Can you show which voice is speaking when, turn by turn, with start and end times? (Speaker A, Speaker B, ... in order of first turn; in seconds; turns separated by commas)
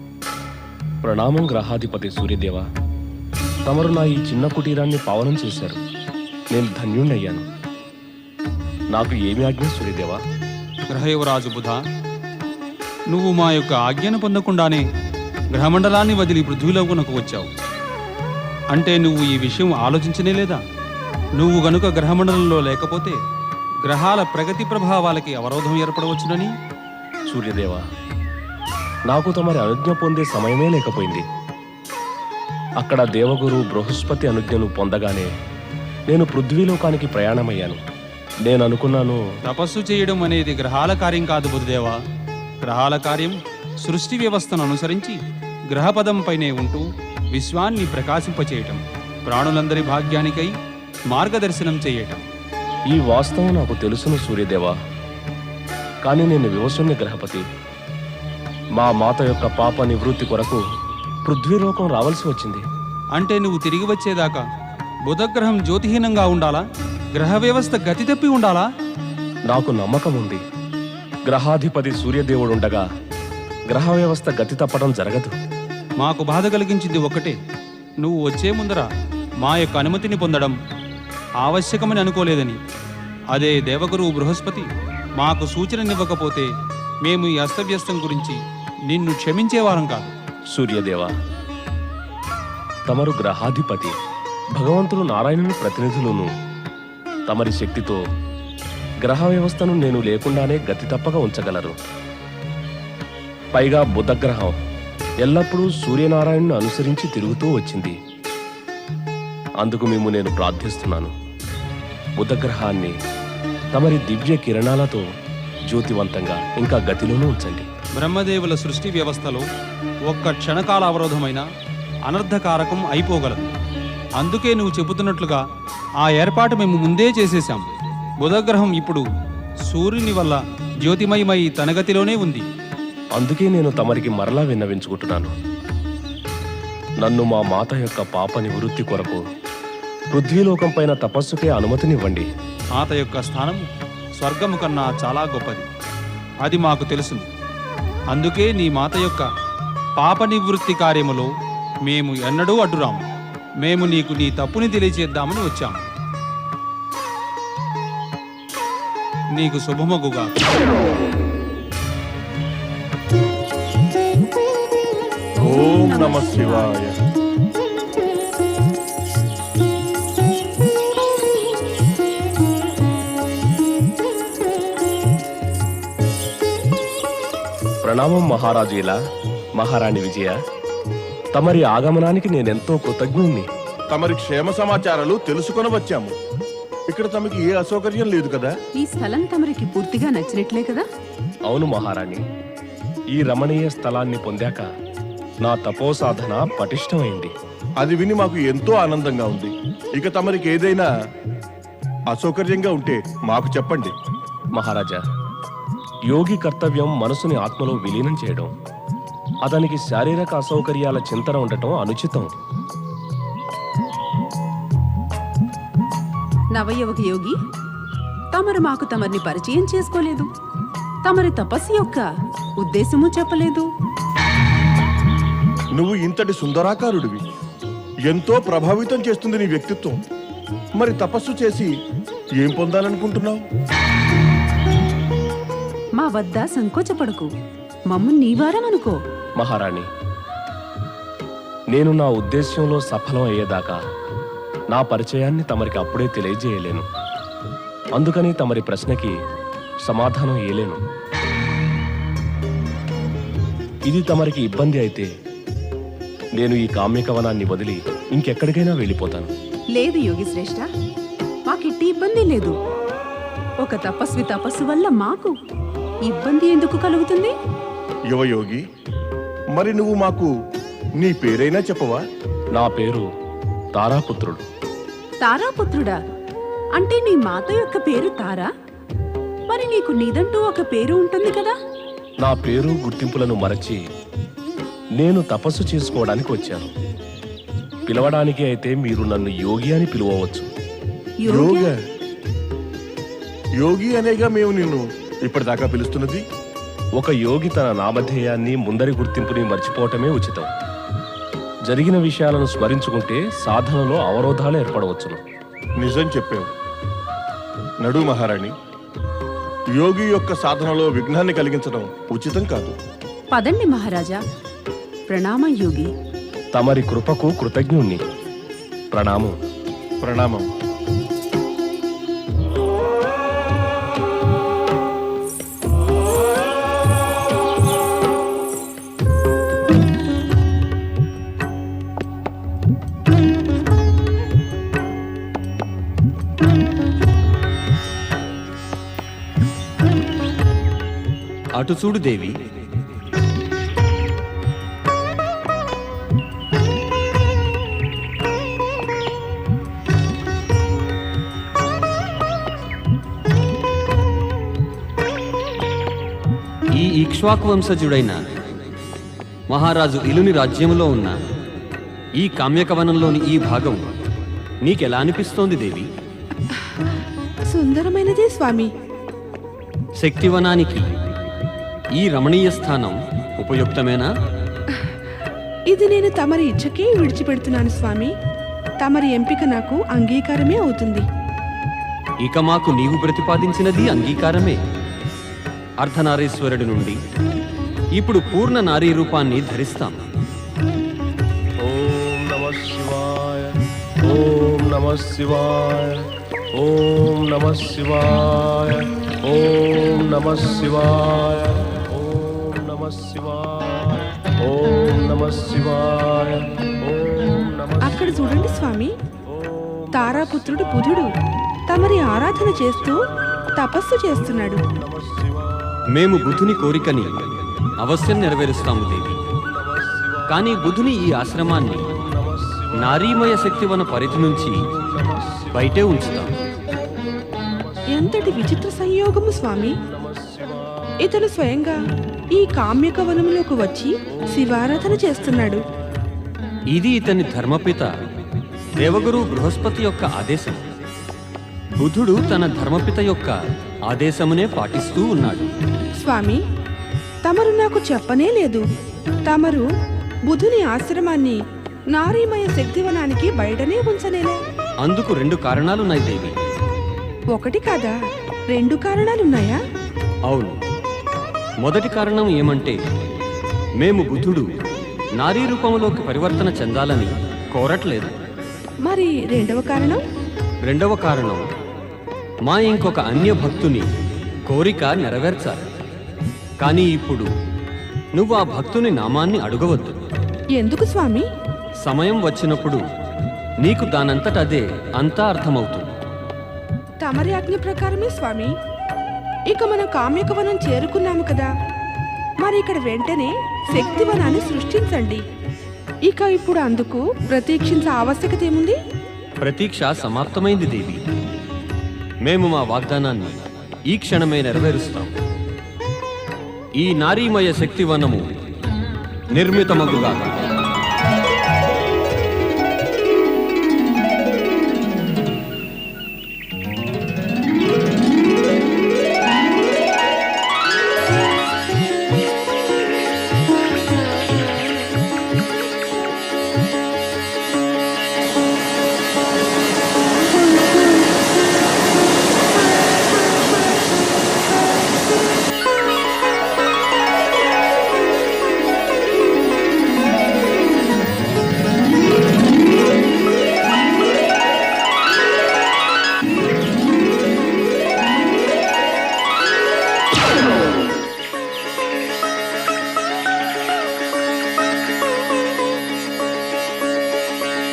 Speaker A: 1.0-2.6, Speaker A: 3.6-5.8, Speaker A: 6.5-7.4, Speaker A: 8.9-10.2, Speaker B: 10.9-11.8, Speaker B: 13.1-14.8, Speaker B: 15.5-17.4, Speaker B: 18.7-20.6, Speaker B: 21.4-23.1, Speaker B: 23.9-26.5, Speaker A: 27.3-27.8, Speaker A: 29.1-31.2, Speaker A: 32.8-35.3, Speaker A: 36.1-37.8, Speaker A: 38.5-39.2, Speaker B: 39.5-42.0, Speaker B: 42.7-45.1, Speaker B: 45.7-46.8, Speaker B: 47.3-50.5, Speaker B: 51.1-52.2, Speaker A: 52.9-54.7, Speaker A: 56.0-57.4, Speaker A: 58.7-60.6, Speaker A: 61.2-62.6, Speaker B: 63.2-64.4, Speaker B: 65.1-66.6, Speaker B: 67.2-68.6, Speaker A: 69.5-70.4, Speaker A: 71.2-72.8, Speaker A: 73.7-75.3, Speaker B: 76.0-77.3, Speaker B: 78.0-78.8, Speaker B: 79.4-80.5, Speaker B: 81.5-82.5, Speaker B: 83.3-84.6, Speaker B: 85.2-86.5, Speaker B: 87.1-88.3, Speaker B: 88.9-90.1, Speaker A: 90.5-91.1, Speaker A: 92.9-93.9, Speaker A: 94.5-96.3, Speaker A: 97.3-98.0, Speaker A: 99.0-101.8, Speaker A: 103.5-104.5, Speaker A: 105.2-108.0, Speaker A: 109.6-111.1, Speaker A: 112.2-112.9, Speaker A: 113.7-115.0, Speaker A: 115.7-117.7, Speaker B: 118.0-119.4, Speaker B: 120.1-121.4, Speaker B: 122.1-123.4, Speaker B: 124.2-125.4, Speaker B: 126.1-127.7, Speaker B: 128.2-129.0, Speaker B: 129.7-132.4, Speaker A: 133.1-135.3, Speaker A: 137.0-139.2, Speaker A: 140.1-142.3, Speaker B: 142.8-143.6, Speaker B: 144.2-145.6, Speaker B: 146.4-147.2, Speaker B: 148.1-149.2, Speaker B: 150.0-151.2, Speaker B: 151.9-153.0, Speaker B: 153.6-155.8, Speaker B: 159.4-160.3, Speaker C: 165.4-167.0, Speaker D: 165.4-166.7, Speaker A: 177.8-179.0, Speaker A: 179.6-180.3, Speaker A: 181.3-183.5, Speaker C: 183.9-186.1, Speaker C: 186.9-188.5, Speaker D: 188.8-190.8, Speaker A: 191.5-192.2, Speaker A: 193.1-194.6, Speaker A: 195.4-197.3, Speaker C: 197.8-200.9, Speaker C: 202.1-203.9, Speaker A: 204.5-205.0, Speaker A: 206.1-208.5, Speaker A: 209.4-212.3, Speaker D: 216.5-217.4, Speaker D: 218.3-220.3, Speaker D: 221.0-222.1, Speaker D: 222.6-223.7, Speaker C: 225.7-227.2, Speaker C: 228.1-230.0, Speaker C: 230.8-231.7, Speaker C: 232.4-233.4, Speaker D: 236.0-237.3, Speaker D: 237.9-239.0, Speaker A: 239.4-239.9, Speaker A: 241.7-243.8, Speaker A: 244.7-246.8, Speaker A: 247.9-249.1, Speaker A: 249.8-250.8, Speaker A: 253.8-255.1, Speaker A: 256.4-259.3, Speaker D: 259.7-260.6, Speaker D: 261.5-262.6, Speaker D: 263.6-265.3, Speaker D: 266.1-267.3, Speaker C: 268.1-268.6, Speaker C: 269.5-270.3, Speaker C: 271.0-272.0, Speaker A: 272.5-273.1, Speaker A: 273.7-274.4, Speaker D: 275.2-276.0, Speaker D: 276.8-278.5, Speaker D: 279.5-281.5, Speaker A: 282.2-283.8, Speaker A: 285.0-286.7, Speaker A: 287.9-290.5, Speaker D: 291.2-291.7, Speaker C: 291.2-291.8, Speaker C: 293.6-296.2, Speaker A: 297.0-300.5, Speaker A: 301.6-305.2, Speaker C: 305.8-306.5, Speaker C: 307.8-308.5, Speaker C: 309.7-312.8, Speaker D: 313.3-314.2, Speaker D: 315.1-315.9, Speaker A: 316.5-318.0, Speaker A: 318.9-319.3, Speaker C: 320.0-320.4, Speaker E: 341.5-342.4, Speaker E: 356.7-358.2, Speaker E: 359.5-361.2, Speaker E: 362.2-363.8, Speaker E: 364.6-365.9, Speaker F: 367.5-368.7, Speaker E: 370.0-370.9, Speaker E: 371.9-374.1, Speaker F: 375.7-378.1, Speaker F: 378.8-381.1, Speaker E: 382.2-384.6, Speaker E: 385.8-387.0, Speaker E: 387.9-390.0, Speaker A: 391.6-408.6, Speaker F: 407.8-408.9, Speaker A: 409.3-410.9, Speaker F: 409.9-411.1, Speaker F: 411.7-413.0, Speaker A: 412.2-413.6, Speaker F: 413.5-414.6, Speaker A: 414.4-415.7, Speaker E: 415.9-419.2, Speaker A: 419.3-420.6, Speaker E: 420.3-421.9, Speaker A: 421.9-426.8, Speaker E: 422.7-424.7, Speaker E: 425.5-426.3, Speaker A: 427.4-428.1, Speaker F: 427.9-429.7, Speaker A: 429.9-430.9, Speaker F: 431.0-431.8, Speaker F: 432.3-435.6, Speaker A: 434.2-434.6, Speaker E: 436.7-437.9, Speaker E: 438.8-440.6, Speaker E: 441.8-445.5, Speaker F: 445.9-446.4, Speaker F: 447.2-448.6, Speaker F: 449.2-449.6, Speaker F: 450.3-451.4, Speaker F: 451.9-454.4, Speaker E: 454.8-456.4, Speaker F: 457.3-458.0, Speaker F: 458.5-459.6, Speaker E: 460.3-460.6, Speaker E: 461.6-462.8, Speaker E: 463.8-464.5, Speaker E: 465.2-468.1, Speaker F: 468.8-470.0, Speaker E: 470.6-471.4, Speaker E: 472.4-473.9, Speaker E: 474.5-475.6, Speaker E: 476.6-477.3, Speaker E: 478.1-480.0, Speaker F: 480.5-481.2, Speaker E: 481.8-482.8, Speaker E: 483.6-485.9, Speaker F: 487.0-488.5, Speaker F: 489.5-491.5, Speaker F: 492.4-495.2, Speaker F: 496.1-498.8, Speaker E: 499.4-501.0, Speaker E: 502.2-503.4, Speaker E: 503.9-505.1, Speaker E: 506.8-508.2, Speaker E: 509.3-510.4